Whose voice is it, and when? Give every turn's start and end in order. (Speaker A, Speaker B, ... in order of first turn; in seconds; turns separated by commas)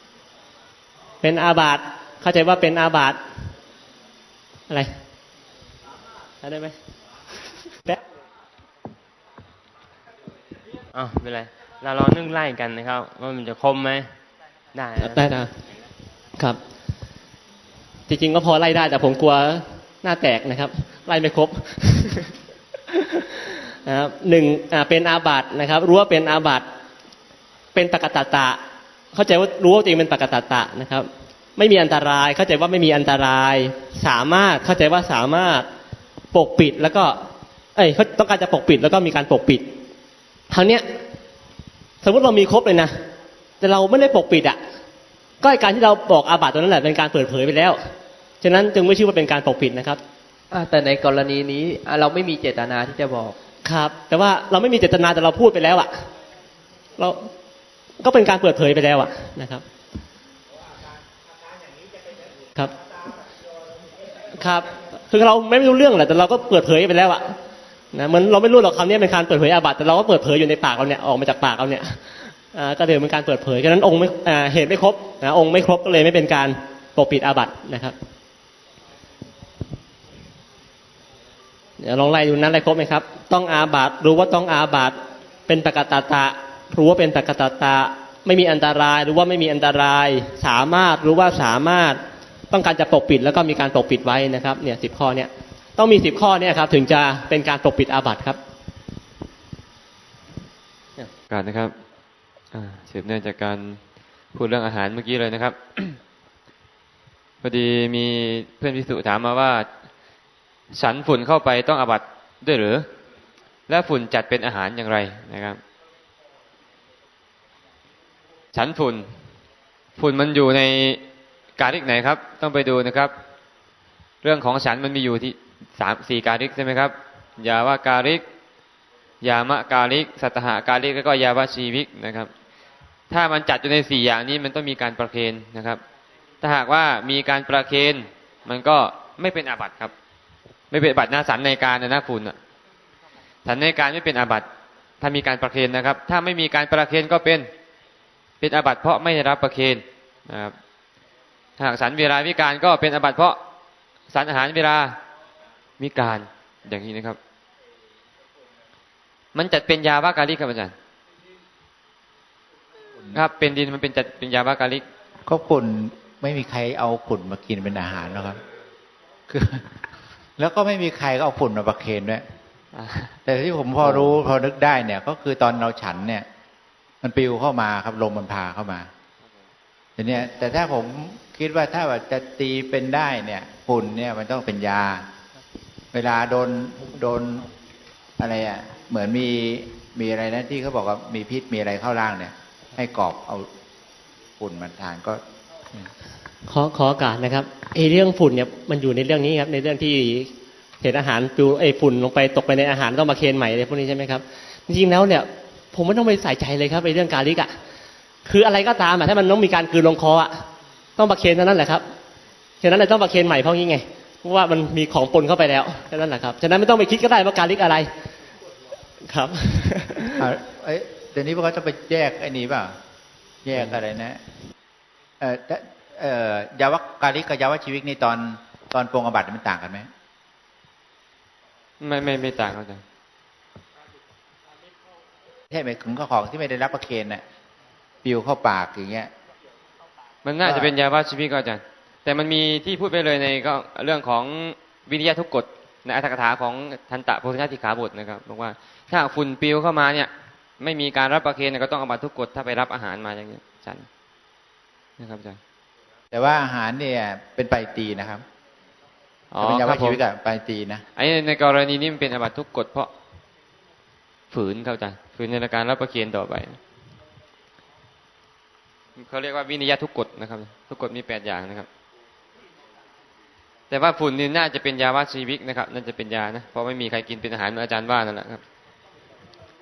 Speaker A: 1.2-3.2, Speaker A: 6.4-6.7, Speaker B: 10.9-14.1, Speaker B: 14.7-15.2, Speaker A: 15.0-15.5, Speaker A: 18.1-22.3, Speaker A: 22.9-26.6, Speaker A: 27.7-28.6, Speaker A: 29.1-35.6, Speaker A: 36.3-37.1, Speaker A: 37.8-39.6, Speaker A: 40.5-40.8, Speaker A: 42.0-42.9, Speaker A: 43.6-44.6, Speaker A: 45.4-47.8, Speaker A: 48.4-50.0, Speaker C: 50.5-53.4, Speaker A: 53.6-55.9, Speaker A: 57.0-57.3, Speaker A: 58.0-59.6, Speaker A: 64.3-67.3, Speaker A: 67.9-72.0, Speaker A: 72.5-77.9, Speaker A: 81.8-84.9, Speaker A: 85.5-92.0, Speaker A: 92.5-98.4, Speaker D: 101.3-101.7, Speaker D: 102.5-103.8, Speaker D: 104.3-106.0, Speaker D: 107.4-109.7, Speaker D: 110.7-112.8, Speaker D: 113.7-115.6, Speaker D: 118.5-119.1, Speaker D: 120.0-121.0, Speaker D: 121.6-123.1, Speaker D: 124.2-128.2, Speaker D: 129.2-132.3, Speaker D: 133.1-135.8, Speaker D: 136.4-139.9, Speaker D: 140.7-142.4, Speaker D: 143.4-144.5, Speaker D: 145.0-147.5, Speaker D: 148.4-150.6, Speaker D: 151.6-153.4, Speaker D: 154.1-155.0, Speaker D: 155.8-157.2, Speaker D: 159.3-160.7, Speaker D: 163.1-164.8, Speaker E: 165.3-168.4, Speaker E: 169.3-169.8, Speaker E: 170.4-172.2, Speaker D: 172.7-173.1, Speaker E: 173.2-176.2, Speaker D: 173.8-174.1, Speaker E: 177.0-178.9, Speaker E: 180.0-185.0, Speaker E: 185.9-187.5, Speaker E: 188.2-193.4, Speaker E: 194.4-195.2, Speaker A: 196.5-200.3, Speaker A: 200.8-207.5, Speaker A: 208.2-210.3, Speaker A: 211.0-211.8, Speaker A: 212.6-217.9, Speaker A: 219.1-220.3, Speaker E: 220.2-222.7, Speaker E: 223.4-224.2, Speaker E: 225.2-229.9, Speaker D: 231.8-232.8, Speaker E: 235.5-237.2, Speaker E: 238.0-239.1, Speaker D: 240.2-253.8, Speaker E: 240.4-240.7, Speaker D: 255.0-255.4, Speaker E: 256.1-258.2, Speaker D: 259.3-260.0, Speaker E: 259.4-260.8, Speaker D: 260.9-262.9, Speaker D: 264.3-266.6, Speaker D: 269.0-271.7, Speaker D: 273.7-278.4